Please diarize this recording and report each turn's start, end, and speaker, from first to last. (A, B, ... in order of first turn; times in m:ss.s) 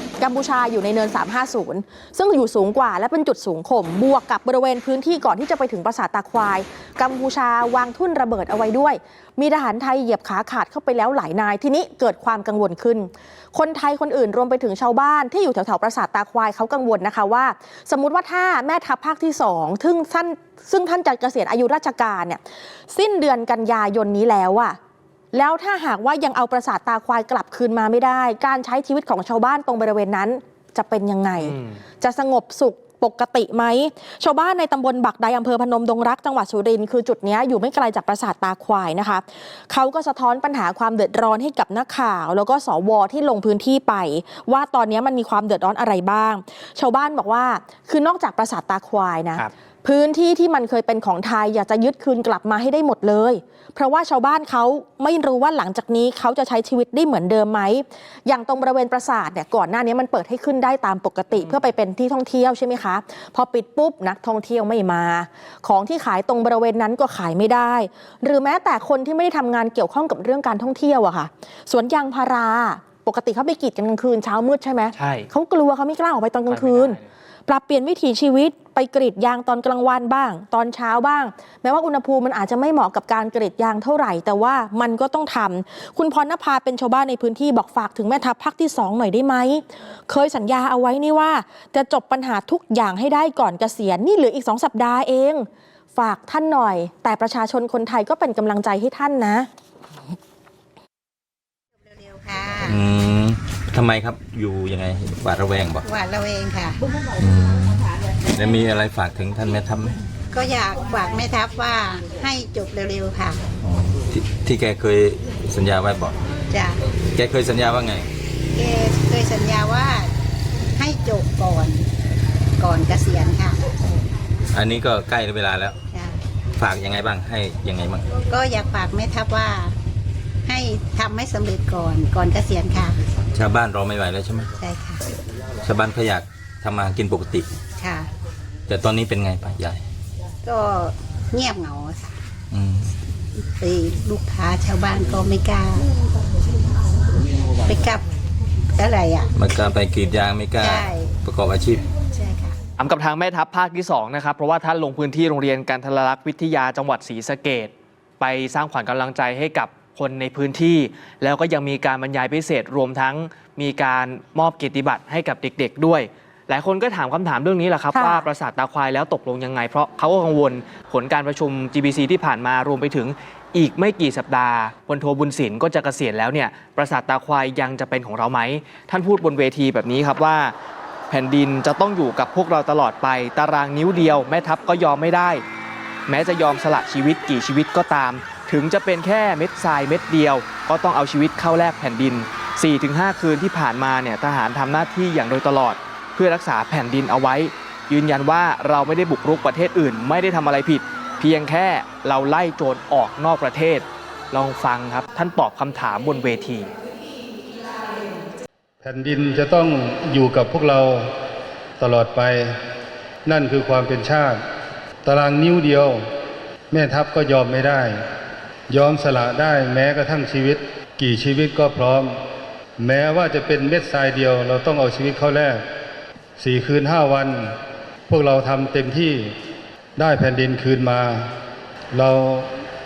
0:00.2-0:24.8 A
0:25.3-1:39.5 A
0:31.4-0:31.8 B
1:14.9-1:15.3 B
1:16.5-1:17.0 B
1:41.8-1:42.8 C
1:42.6-1:45.8 D
1:45.8-1:46.8 C
1:47.2-1:50.0 D
1:50.3-1:53.5 C
1:53.6-1:56.2 D
1:56.5-1:56.8 C
1:57.1-1:58.1 D
1:58.5-2:00.1 C
2:00.7-2:01.9 C
2:02.6-2:03.7 C
2:04.5-2:05.8 D
2:05.9-2:06.2 C
2:06.6-2:08.1 D
2:08.2-2:09.8 C
2:10.4-2:13.0 C
2:13.3-2:14.5 D
2:14.6-2:15.0 C
2:15.6-2:17.5 D
2:17.8-2:18.1 C
2:18.7-2:19.8 D
2:20.4-2:22.2 C
2:22.5-2:22.9 D
2:23.4-2:25.9 C
2:27.6-2:28.0 C
2:28.7-2:29.3 C
2:29.4-2:31.9 D
2:30.6-2:31.1 C
2:32.1-2:32.6 C
2:32.8-3:00.5 B
2:47.9-2:48.3 A
3:01.1-3:05.4 B
3:06.1-3:26.7 B
3:28.8-3:31.1 E
3:31.8-3:32.5 E
3:33.2-3:34.4 E
3:35.0-3:36.0 E
3:36.7-3:38.0 E
3:38.7-3:42.2 E
3:42.8-3:45.6 E
3:46.4-3:47.5 E
3:48.1-3:49.3 E
3:50.0-3:51.3 E
3:51.9-3:52.5 E